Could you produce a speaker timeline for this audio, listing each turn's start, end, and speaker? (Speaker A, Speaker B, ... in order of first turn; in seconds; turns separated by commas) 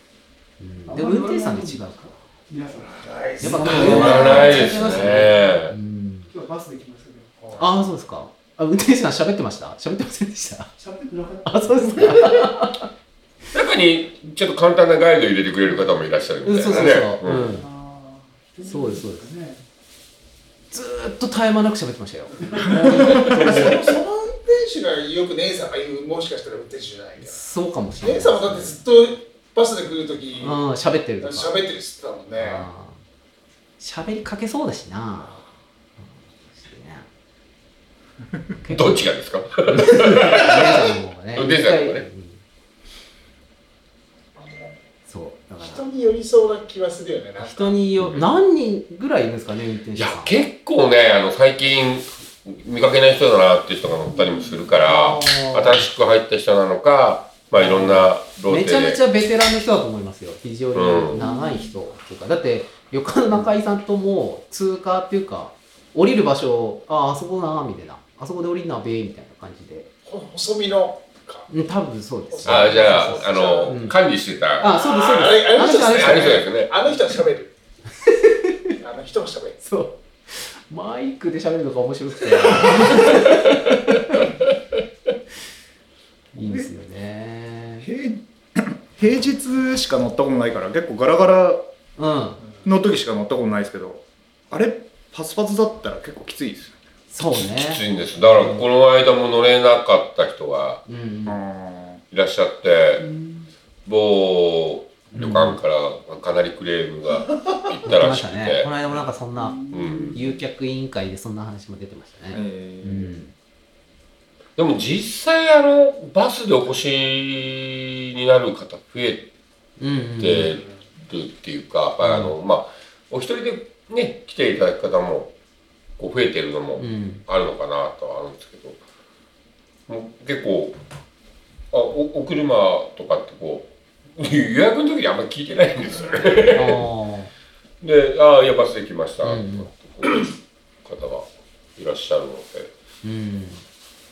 Speaker A: 0.6-2.2, Speaker B: 0.9-5.1, Speaker C: 2.9-4.8, Speaker A: 3.4-6.3, Speaker D: 3.6-5.7, Speaker B: 6.3-7.6, Speaker C: 7.4-7.7, Speaker A: 7.5-10.7, Speaker B: 10.8-12.4, Speaker A: 11.4-12.9, Speaker D: 13.5-17.5, Speaker A: 16.4-17.7, Speaker B: 17.3-19.6, Speaker A: 18.6-19.3, Speaker A: 20.7-23.9, Speaker C: 22.3-27.4, Speaker B: 22.4-23.6, Speaker A: 27.2-28.8, Speaker C: 28.0-30.6, Speaker A: 30.4-31.5, Speaker C: 31.2-32.6, Speaker A: 32.4-33.0, Speaker A: 33.8-35.4, Speaker A: 36.0-37.1, Speaker A: 38.6-39.0, Speaker D: 38.7-42.0, Speaker A: 39.7-42.4, Speaker A: 45.1-45.8, Speaker C: 45.6-47.8, Speaker A: 47.4-50.5, Speaker D: 48.0-48.2, Speaker D: 50.0-59.0, Speaker B: 54.1-54.7, Speaker A: 54.9-55.9, Speaker A: 57.5-69.9, Speaker D: 60.7-61.2, Speaker B: 61.1-61.8, Speaker C: 70.0-71.5, Speaker A: 71.5-74.0, Speaker C: 72.3-73.8, Speaker D: 72.4-74.7, Speaker A: 74.6-76.4, Speaker C: 74.7-77.5, Speaker D: 75.7-76.7, Speaker A: 78.0-78.7, Speaker C: 78.8-79.6, Speaker A: 79.6-84.3, Speaker A: 86.3-87.9, Speaker E: 86.4-86.7, Speaker E: 87.8-91.6, Speaker A: 92.0-92.4, Speaker E: 92.6-96.8, Speaker A: 97.1-98.6, Speaker D: 97.3-100.8, Speaker A: 100.9-101.4, Speaker E: 101.2-102.0, Speaker D: 102.1-103.0, Speaker B: 103.0-103.5, Speaker D: 103.8-108.7, Speaker A: 105.1-105.6, Speaker A: 107.8-113.3, Speaker B: 109.3-110.2, Speaker D: 109.7-110.2, Speaker E: 112.3-113.2, Speaker D: 114.5-119.3, Speaker A: 119.8-120.5, Speaker D: 120.2-125.3, Speaker A: 122.0-122.3, Speaker D: 126.0-128.8, Speaker A: 126.8-127.2, Speaker D: 129.9-130.8, Speaker D: 131.7-136.8, Speaker A: 136.5-137.3, Speaker D: 137.8-142.7, Speaker A: 139.2-139.7, Speaker A: 143.0-143.6